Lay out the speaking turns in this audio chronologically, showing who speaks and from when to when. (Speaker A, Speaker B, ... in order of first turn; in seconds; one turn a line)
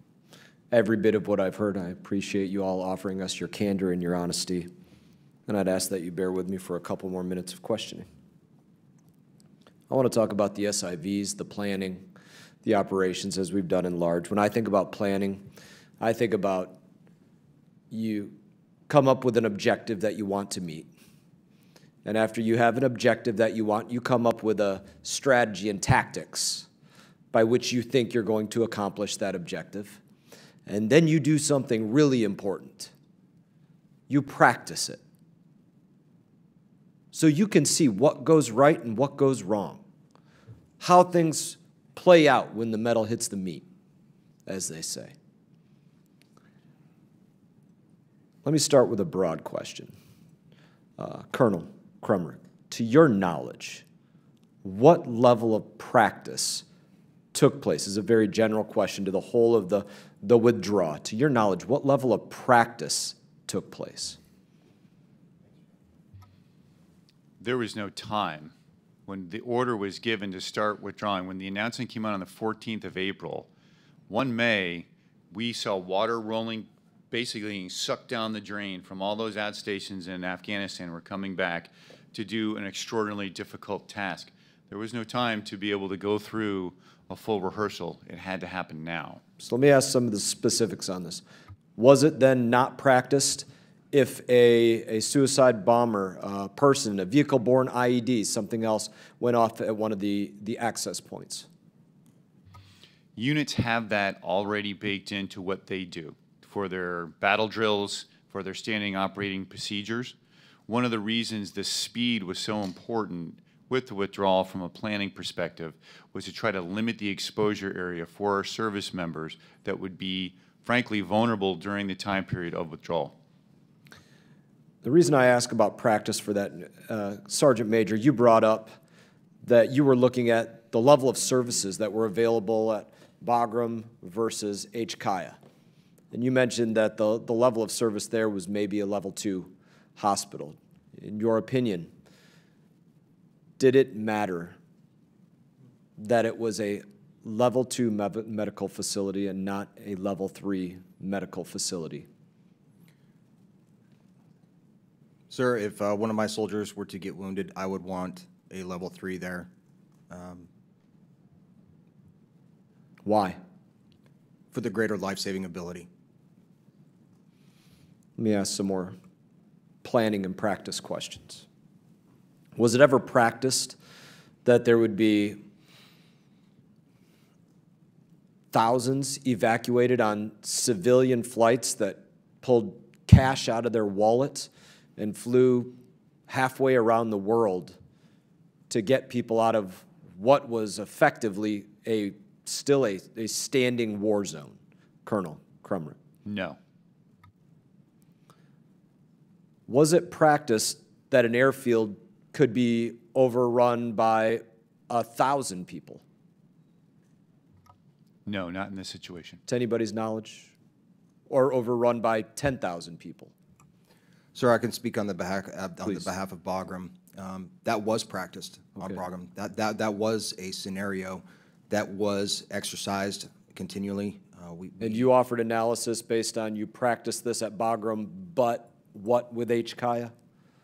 Speaker A: 0.7-4.7
Speaker A: 5.5-8.1
Speaker A: 9.9-12.1
Speaker A: 12.6-15.4
Speaker A: 16.0-16.8
Speaker A: 17.9-18.4
Speaker A: 18.9-20.9
Speaker A: 22.1-26.7
Speaker A: 27.3-30.0
Speaker A: 30.7-32.9
Speaker A: 34.1-35.0
Speaker A: 37.1-39.8
Speaker A: 40.8-43.6
Speaker A: 44.5-45.1
Speaker A: 48.4-49.9
Speaker A: 51.0-53.8
Speaker A: 54.6-56.6
Speaker A: 57.3-64.2
Speaker B: 67.4-68.5
Speaker B: 69.1-73.5
Speaker B: 74.1-89.2
Speaker A: 89.4-91.2
Speaker A: 91.8-101.5
Speaker B: 103.2-110.2
Speaker B: 110.7-123.2
Speaker A: 124.8-128.7
Speaker A: 129.4-135.4
Speaker A: 136.1-141.9
Speaker A: 143.6-144.6
Speaker A: 146.0-152.1
Speaker C: 155.3-159.5
Speaker C: 160.1-160.5
Speaker A: 163.1-163.4
Speaker C: 164.5-165.9
Speaker A: 168.2-169.0
Speaker A: 169.8-171.5
Speaker A: 172.6-173.8
Speaker A: 174.4-175.4
Speaker A: 178.5-185.8
Speaker A: 186.3-187.8
Speaker A: 188.7-196.0
Speaker B: 196.2-196.6
Speaker A: 199.7-206.0
Speaker B: 208.3-209.4
Speaker A: 209.5-210.5
Speaker A: 211.3-213.3
Speaker C: 214.3-225.1
Speaker A: 224.8-230.1